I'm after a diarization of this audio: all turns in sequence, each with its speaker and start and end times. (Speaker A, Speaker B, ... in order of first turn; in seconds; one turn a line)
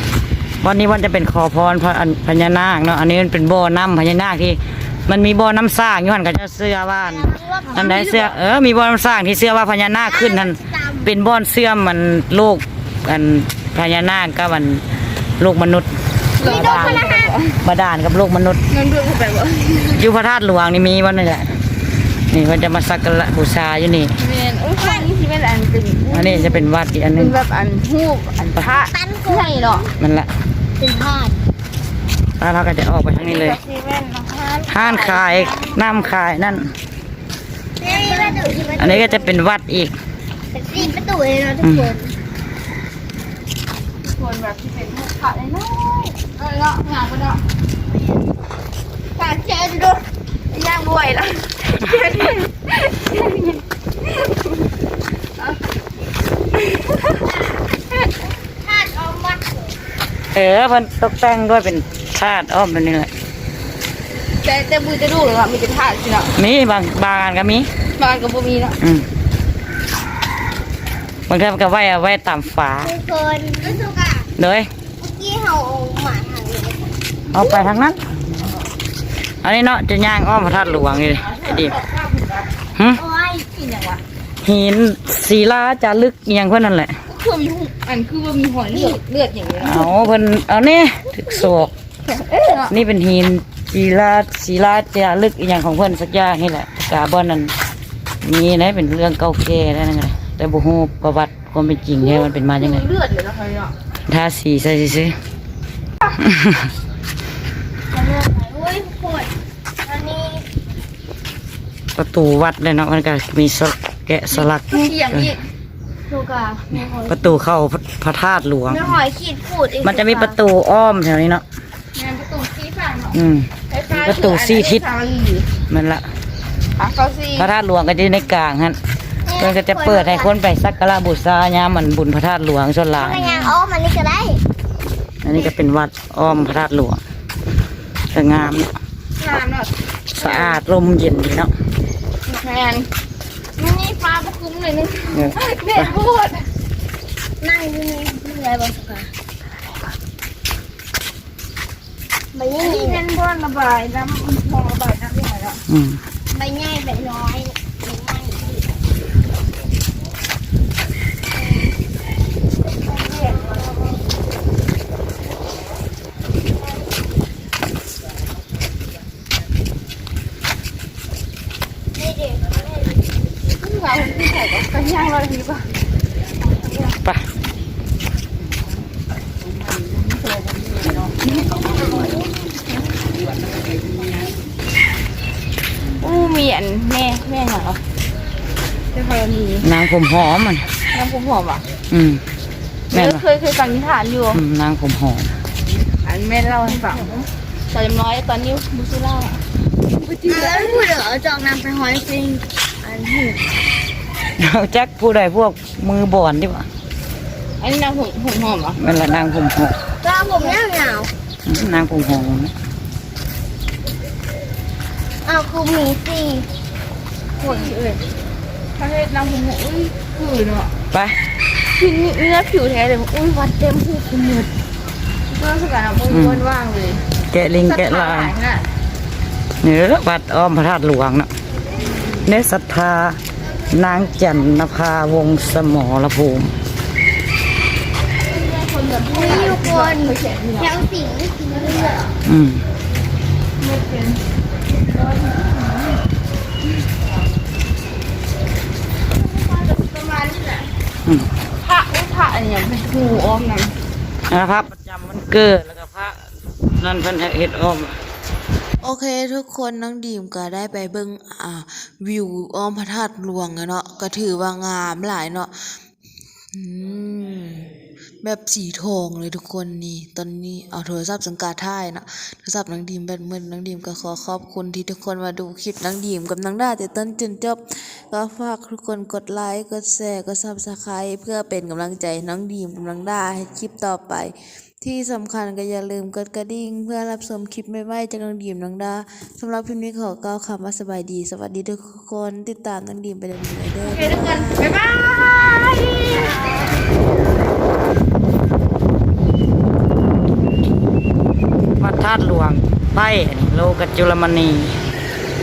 Speaker A: 0.6-14.8
Speaker B: 7.0-8.4
Speaker B: 10.0-11.1
Speaker A: 15.4-15.9
Speaker C: 16.4-17.6
Speaker B: 16.4-17.4
Speaker A: 16.4-17.1
Speaker A: 17.6-18.6
Speaker C: 18.7-20.0
Speaker A: 19.9-21.6
Speaker A: 22.3-24.1
Speaker C: 24.2-29.9
Speaker B: 24.8-25.1
Speaker A: 26.1-27.4
Speaker B: 28.6-29.9
Speaker A: 30.0-30.3
Speaker B: 30.8-31.4
Speaker A: 32.4-33.6
Speaker C: 33.2-36.0
Speaker A: 34.7-36.7
Speaker B: 37.8-39.2
Speaker C: 37.8-39.4
Speaker A: 38.8-39.9
Speaker B: 40.5-42.2
Speaker A: 41.6-41.9
Speaker C: 44.0-47.4
Speaker B: 47.9-48.2
Speaker C: 49.2-49.9
Speaker C: 50.5-54.6
Speaker C: 56.6-57.2
Speaker B: 58.5-59.7
Speaker A: 60.3-63.1
Speaker C: 64.4-66.3
Speaker A: 66.4-67.7
Speaker C: 68.0-68.8
Speaker A: 68.8-69.1
Speaker A: 71.3-72.9
Speaker B: 72.8-74.3
Speaker A: 74.4-74.7
Speaker B: 75.0-77.0
Speaker A: 77.3-78.2
Speaker A: 79.4-81.8
Speaker C: 80.7-82.5
Speaker A: 82.8-83.0
Speaker B: 82.9-83.5
Speaker C: 83.5-84.0
Speaker A: 84.4-86.9
Speaker C: 87.1-90.1
Speaker A: 89.6-91.7
Speaker C: 92.1-92.8
Speaker A: 92.7-97.5
Speaker A: 98.2-102.8
Speaker C: 102.0-103.7
Speaker A: 104.1-105.2
Speaker A: 106.2-106.7
Speaker B: 107.9-109.3
Speaker B: 109.8-110.5
Speaker A: 112.0-115.3
Speaker C: 114.3-115.5
Speaker B: 116.1-117.3
Speaker A: 116.9-119.0
Speaker B: 118.7-120.4
Speaker A: 119.8-121.4
Speaker C: 121.9-125.5
Speaker A: 123.1-124.8
Speaker A: 125.7-126.0
Speaker C: 126.8-127.5
Speaker A: 127.4-128.8
Speaker B: 129.3-130.3
Speaker A: 129.4-133.5
Speaker B: 132.9-134.4
Speaker C: 133.0-133.5
Speaker A: 135.2-137.0
Speaker A: 138.1-138.7
Speaker C: 139.2-140.6
Speaker A: 140.2-141.5
Speaker C: 142.4-142.9
Speaker C: 143.6-146.4
Speaker A: 145.1-145.9
Speaker B: 147.4-149.1
Speaker B: 152.3-153.0
Speaker C: 152.6-155.6
Speaker A: 155.7-156.0
Speaker B: 156.3-158.7
Speaker B: 163.0-163.7
Speaker C: 163.0-163.6
Speaker B: 172.0-173.0
Speaker C: 173.5-175.7
Speaker C: 176.4-176.9
Speaker C: 179.5-182.3
Speaker C: 182.9-184.3
Speaker C: 186.0-187.8
Speaker C: 188.9-189.7
Speaker A: 189.6-190.7
Speaker C: 190.9-191.7
Speaker A: 191.9-192.2
Speaker A: 192.9-193.2
Speaker C: 192.9-194.4
Speaker A: 194.3-195.3
Speaker C: 196.0-200.9
Speaker B: 200.2-203.4
Speaker A: 204.4-206.7
Speaker C: 207.6-208.8
Speaker A: 208.8-209.8
Speaker B: 210.0-211.1
Speaker C: 210.3-210.6
Speaker A: 211.5-212.5
Speaker B: 215.2-216.5
Speaker C: 217.4-218.0
Speaker B: 217.4-217.7
Speaker C: 218.8-220.7
Speaker A: 220.9-221.2
Speaker C: 221.7-224.5
Speaker C: 225.3-227.0
Speaker A: 226.1-226.4
Speaker A: 227.3-228.3
Speaker C: 227.6-228.7
Speaker A: 229.6-231.3
Speaker C: 231.9-232.2
Speaker A: 232.2-233.2
Speaker A: 233.7-236.5
Speaker C: 238.3-240.8
Speaker B: 239.1-242.1
Speaker C: 241.5-242.1
Speaker A: 242.2-242.6
Speaker C: 243.6-244.2
Speaker C: 244.9-246.0
Speaker C: 249.2-250.7
Speaker C: 251.6-253.8
Speaker A: 254.3-256.2
Speaker A: 256.8-257.9
Speaker D: 258.8-265.8
Speaker D: 266.5-267.7
Speaker D: 268.2-294.9
Speaker C: 293.8-296.7
Speaker A: 301.8-304.7